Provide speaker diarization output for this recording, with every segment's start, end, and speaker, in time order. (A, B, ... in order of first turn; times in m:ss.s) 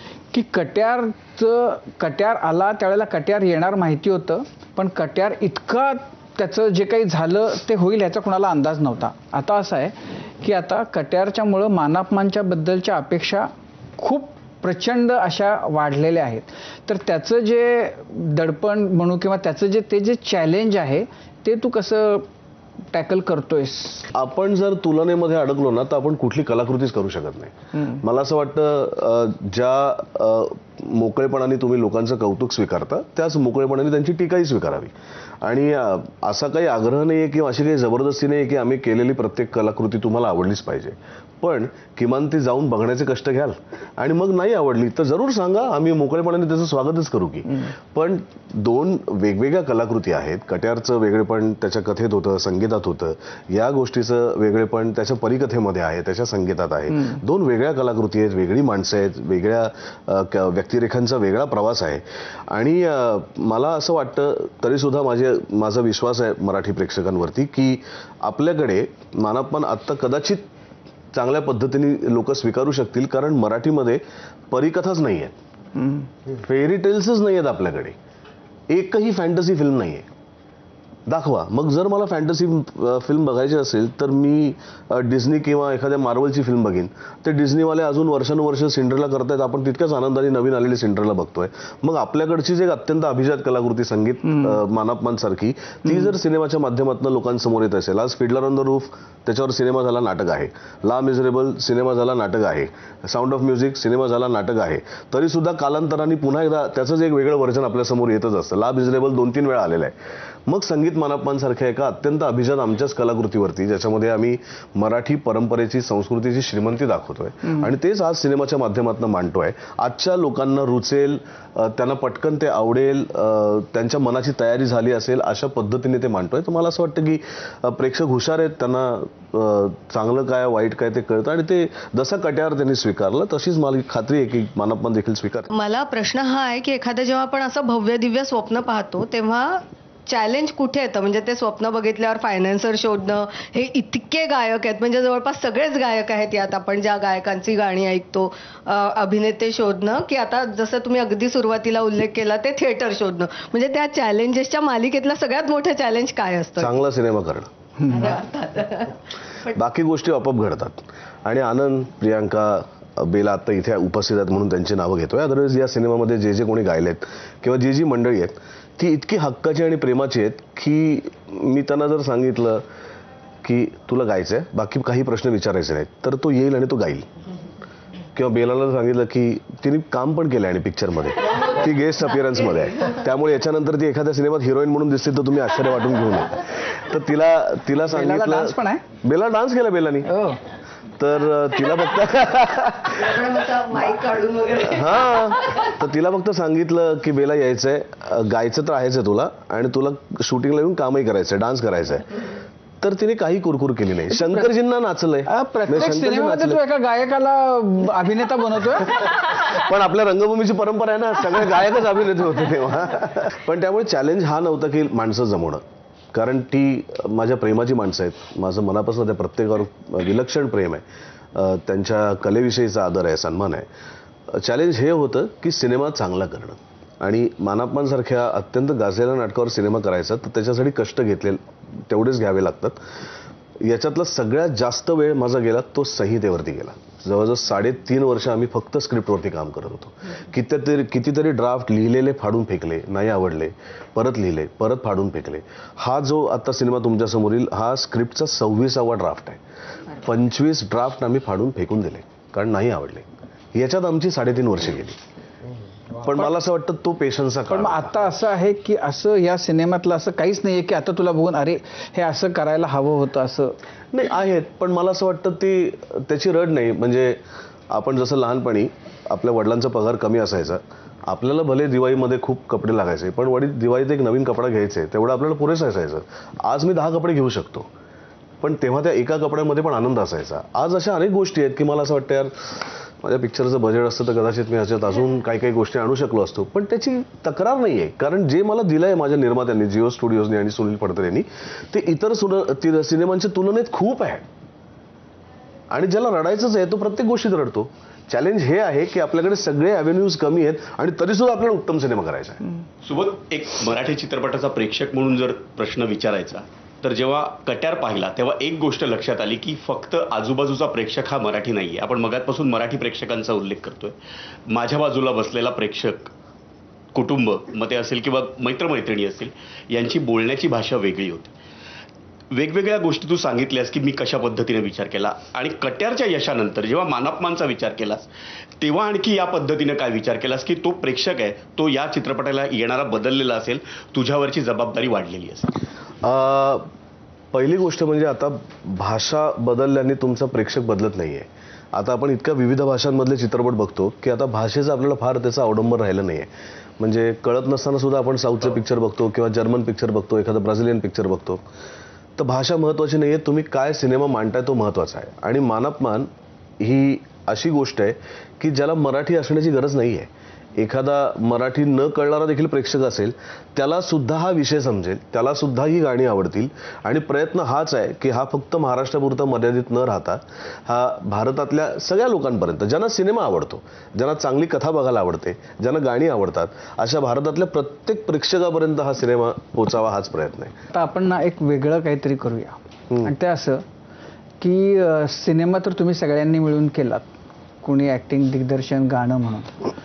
0:00.3-0:22.2 A
0:22.9-0:24.1 A
0:24.1-1:10.5 B
1:11.1-1:15.3 B
1:16.2-1:18.0 B
1:18.7-1:20.1 B
1:21.1-1:49.9 B
1:50.5-2:15.5 B
2:15.5-2:36.8 C
2:36.6-2:37.5 B
2:37.9-2:39.0 C
2:39.5-2:52.6 B
2:53.4-2:57.1 B
2:58.1-3:10.1 B
3:07.8-3:08.8 A
3:10.1-3:10.4 A
3:11.0-3:13.1 B
3:13.0-3:14.9 C
3:14.8-3:22.2 B
3:22.8-3:26.6 B
3:24.2-3:24.4 A
3:25.2-3:29.4 A
3:29.2-3:35.6 B
3:36.1-3:43.7 B
3:44.3-3:52.8 B
3:53.6-4:09.4 B
4:09.9-4:15.0 B
4:15.9-4:18.1 B
4:17.5-4:23.5 A
4:23.9-4:37.7 B
4:38.4-4:54.2 B
4:55.7-5:02.4 B
5:02.8-5:13.9 D
5:14.5-5:16.1 D
5:16.9-5:21.3 D
5:22.3-5:28.0 D
5:28.6-5:35.6 D
5:36.0-5:36.7 B
5:37.3-5:51.4 B
5:52.2-6:20.5 B
6:20.7-6:23.6 A
6:24.4-6:27.1 A
6:27.6-6:29.7 A